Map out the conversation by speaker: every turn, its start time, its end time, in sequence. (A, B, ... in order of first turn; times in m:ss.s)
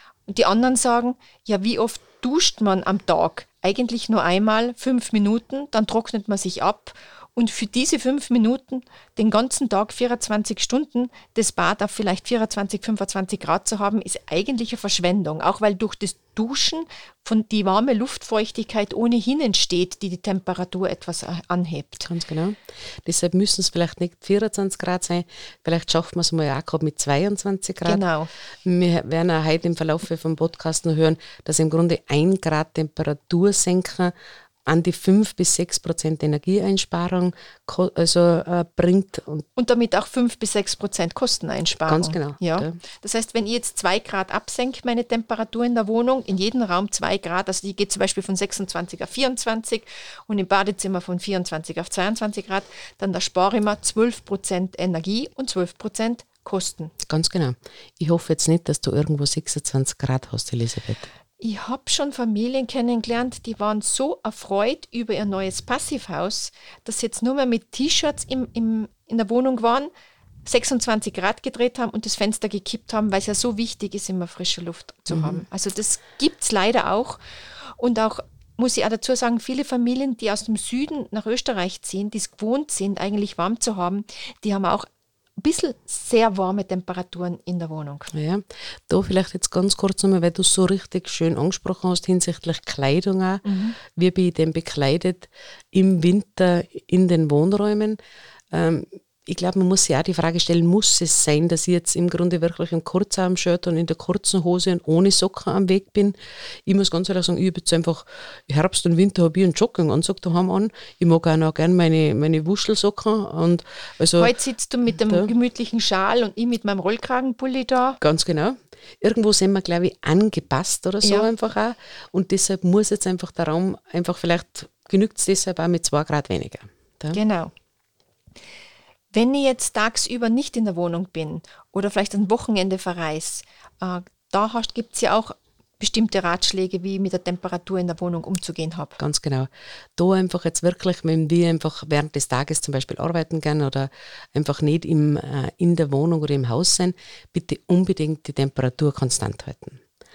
0:00.3-0:22.1 A
0:22.0-0:28.0 B
0:27.8-0:28.3 A
0:28.6-0:34.1 B
0:34.6-0:39.4 B
0:39.6-0:56.9 A
0:41.9-0:42.8 B
0:57.0-1:01.1 B
1:01.4-1:09.9 A
1:10.4-1:17.2 A
1:15.1-1:15.4 B
1:17.8-1:24.9 A
1:25.4-1:28.1 A
1:28.1-1:38.0 B
1:33.4-1:33.8 A
1:38.5-1:54.3 B
1:54.2-1:58.0 A
1:58.0-2:07.2 B
2:01.0-2:01.3 A
2:07.1-2:07.5 A
2:09.1-2:19.0 A
2:19.0-2:29.8 B